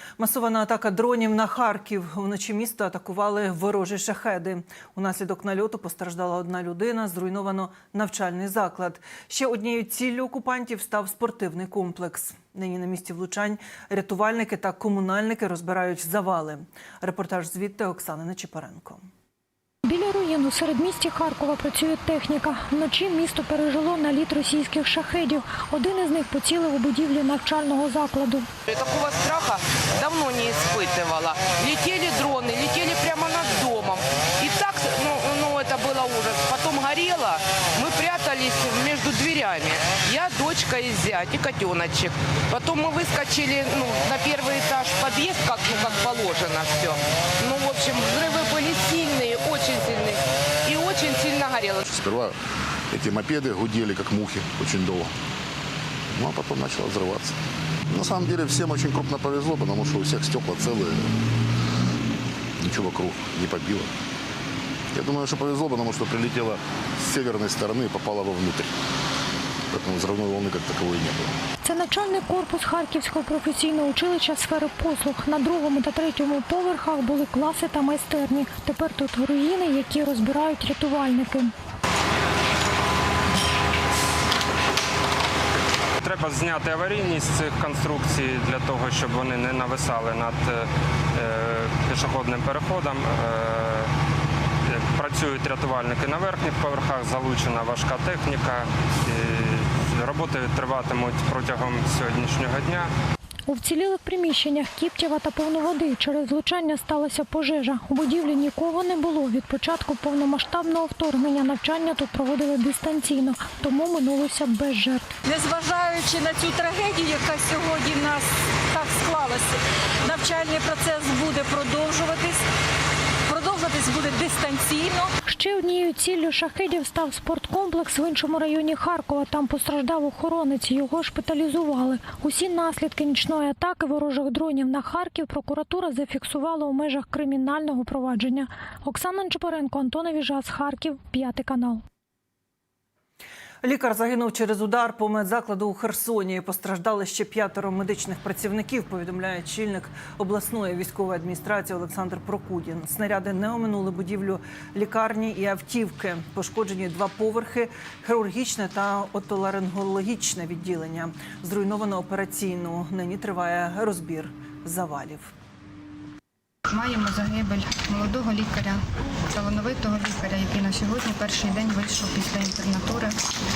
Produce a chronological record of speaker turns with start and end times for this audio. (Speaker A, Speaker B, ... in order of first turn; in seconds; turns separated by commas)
Speaker A: 0.2-19.1, Speaker B: 19.9-28.5, Speaker C: 28.7-51.9, Speaker D: 51.9-52.4, Speaker D: 52.9-55.1, Speaker D: 56.1-57.4, Speaker D: 57.9-61.1, Speaker D: 62.6-63.9, Speaker D: 64.9-68.7, Speaker D: 69.7-71.4, Speaker B: 71.6-81.5, Speaker E: 86.0-93.9, Speaker E: 94.7-102.9, Speaker B: 103.5-115.1, Speaker F: 115.2-122.4, Speaker F: 123.2-125.1, Speaker B: 125.2-141.8, Speaker A: 143.6-165.3, Speaker G: 166.7-173.2